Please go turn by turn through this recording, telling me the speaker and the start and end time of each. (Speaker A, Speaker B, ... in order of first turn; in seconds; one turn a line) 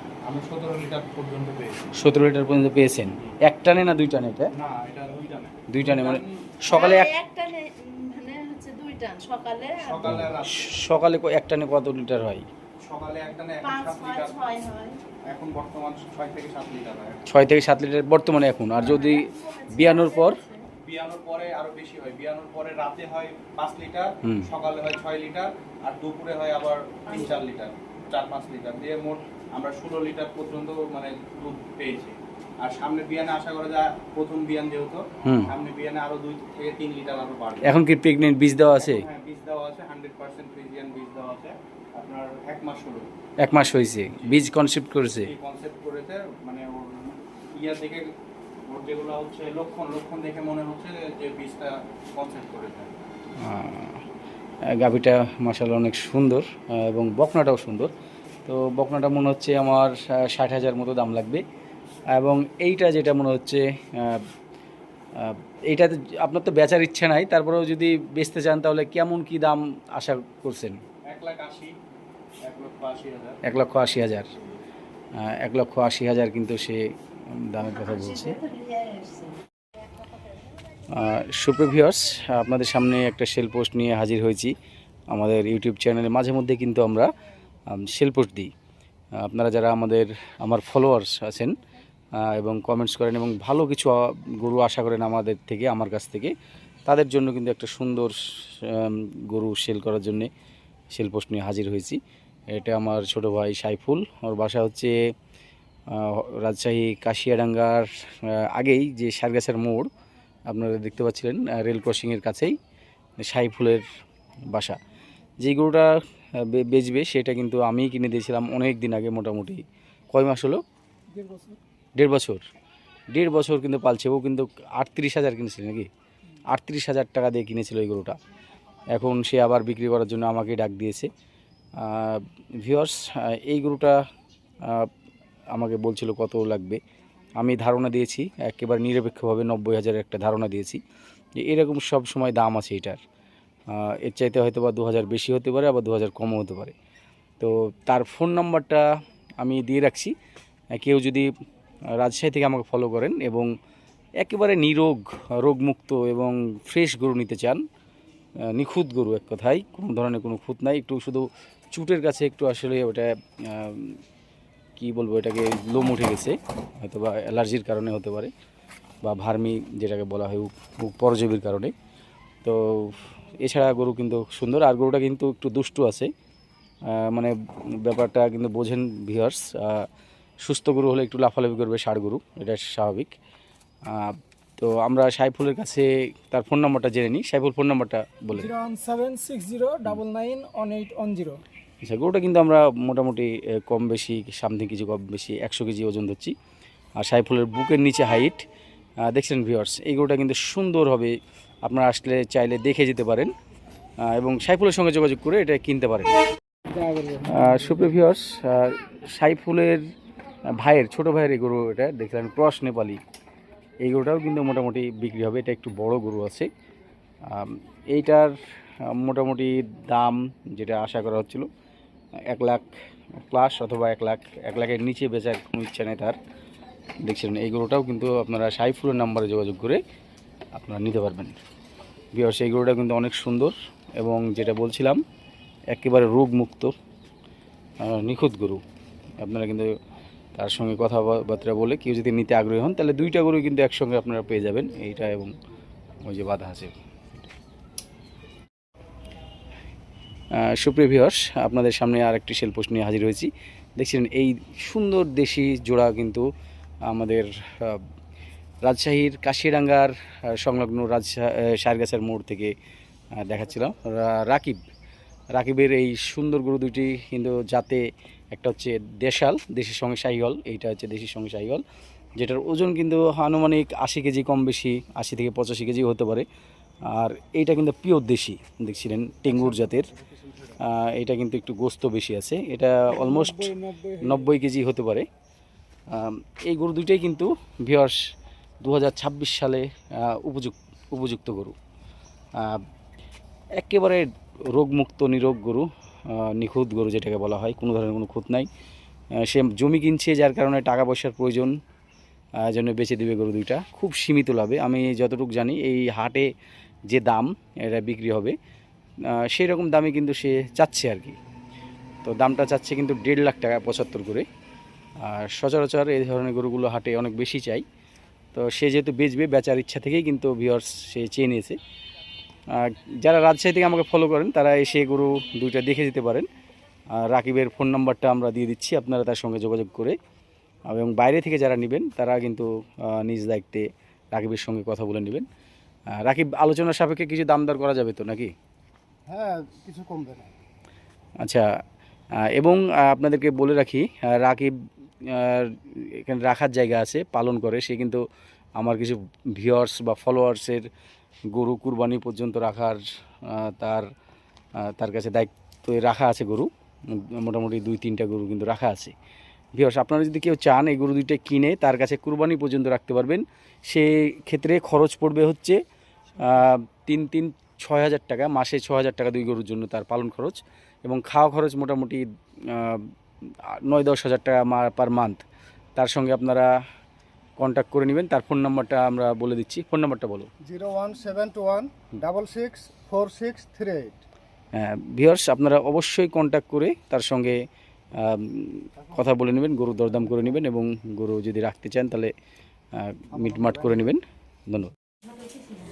Speaker A: 0.3-1.9
Speaker B: 1.9-4.5
Speaker A: 4.5-6.6
Speaker B: 5.7-7.2
Speaker C: 6.7-10.1
Speaker A: 9.8-10.8
Speaker B: 10.1-12.4
Speaker A: 12.8-14.4
Speaker C: 13.6-15.0
Speaker A: 15.3-17.2
Speaker B: 17.3-20.4
Speaker C: 18.8-20.6
Speaker A: 20.8-37.8
Speaker C: 27.1-27.3
Speaker B: 35.2-35.5
Speaker B: 37.6-39.1
Speaker A: 38.8-43.1
Speaker B: 43.4-45.3
Speaker A: 44.2-44.4
Speaker A: 45.2-48.1
Speaker A: 48.7-53.0
Speaker B: 53.4-54.0
Speaker B: 54.7-57.9
Speaker B: 58.5-61.4
Speaker B: 62.1-64.2
Speaker B: 65.2-70.8
Speaker A: 71.1-71.8
Speaker A: 72.4-73.4
Speaker B: 73.4-74.3
Speaker B: 75.2-78.5
Speaker C: 78.3-79.4
Speaker B: 80.9-84.5
Speaker B: 85.1-87.1
Speaker B: 87.7-88.5
Speaker B: 89.2-91.6
Speaker B: 92.2-96.3
Speaker B: 96.9-100.3
Speaker B: 100.9-102.0
Speaker B: 102.5-104.9
Speaker B: 105.9-109.9
Speaker B: 110.5-112.5
Speaker B: 113.2-113.9
Speaker B: 114.5-114.8
Speaker B: 115.4-120.6
Speaker D: 121.1-121.6
Speaker B: 122.0-122.4
Speaker B: 123.1-125.9
Speaker B: 126.5-128.2
Speaker B: 128.9-131.1
Speaker B: 131.8-134.0
Speaker B: 134.6-134.9
Speaker B: 135.6-136.8
Speaker B: 137.4-140.8
Speaker B: 141.4-143.0
Speaker B: 143.7-146.7
Speaker B: 147.4-148.9
Speaker B: 149.4-150.2
Speaker B: 150.7-151.3
Speaker B: 151.9-153.5
Speaker B: 154.2-157.6
Speaker B: 158.5-164.0
Speaker B: 164.8-168.3
Speaker B: 169.0-171.7
Speaker B: 172.4-176.1
Speaker B: 176.9-179.9
Speaker B: 180.4-183.2
Speaker B: 183.9-188.5
Speaker D: 188.3-191.4
Speaker B: 191.8-196.3
Speaker B: 197.0-198.4
Speaker B: 199.0-203.3
Speaker B: 204.0-206.1
Speaker D: 206.7-208.0
Speaker B: 207.2-209.8
Speaker B: 210.6-213.0
Speaker B: 213.8-216.5
Speaker B: 217.2-221.5
Speaker B: 222.3-226.2
Speaker B: 227.0-229.8
Speaker B: 230.5-231.4
Speaker B: 232.1-235.0
Speaker B: 235.7-236.7
Speaker B: 237.8-238.6
Speaker B: 239.2-239.7
Speaker B: 240.3-245.3
Speaker B: 246.0-246.7
Speaker B: 250.3-256.3
Speaker B: 256.9-257.8
Speaker B: 258.6-262.5
Speaker B: 263.2-264.6
Speaker B: 265.3-271.6
Speaker B: 272.2-276.3
Speaker B: 276.9-279.9
Speaker B: 280.5-285.1
Speaker D: 282.9-284.3
Speaker B: 285.9-288.0
Speaker B: 288.6-291.6
Speaker B: 292.4-292.6
Speaker B: 293.6-298.5
Speaker B: 299.1-301.6
Speaker B: 302.4-306.3
Speaker B: 306.9-308.4
Speaker B: 309.1-311.2
Speaker B: 312.1-314.3
Speaker B: 315.0-317.6
Speaker B: 318.3-321.6
Speaker B: 322.5-326.3
Speaker B: 326.9-330.0
Speaker B: 330.7-335.3
Speaker B: 335.9-338.3
Speaker D: 339.1-340.3
Speaker B: 342.2-348.0
Speaker B: 348.6-350.7
Speaker B: 351.3-353.9
Speaker B: 354.6-358.9
Speaker B: 359.6-365.6
Speaker B: 366.2-372.9
Speaker B: 373.4-375.2
Speaker B: 375.8-376.5
Speaker B: 377.4-380.3
Speaker D: 380.4-384.0
Speaker B: 384.5-387.4
Speaker B: 387.9-392.1
Speaker B: 392.8-394.7
Speaker D: 393.2-393.6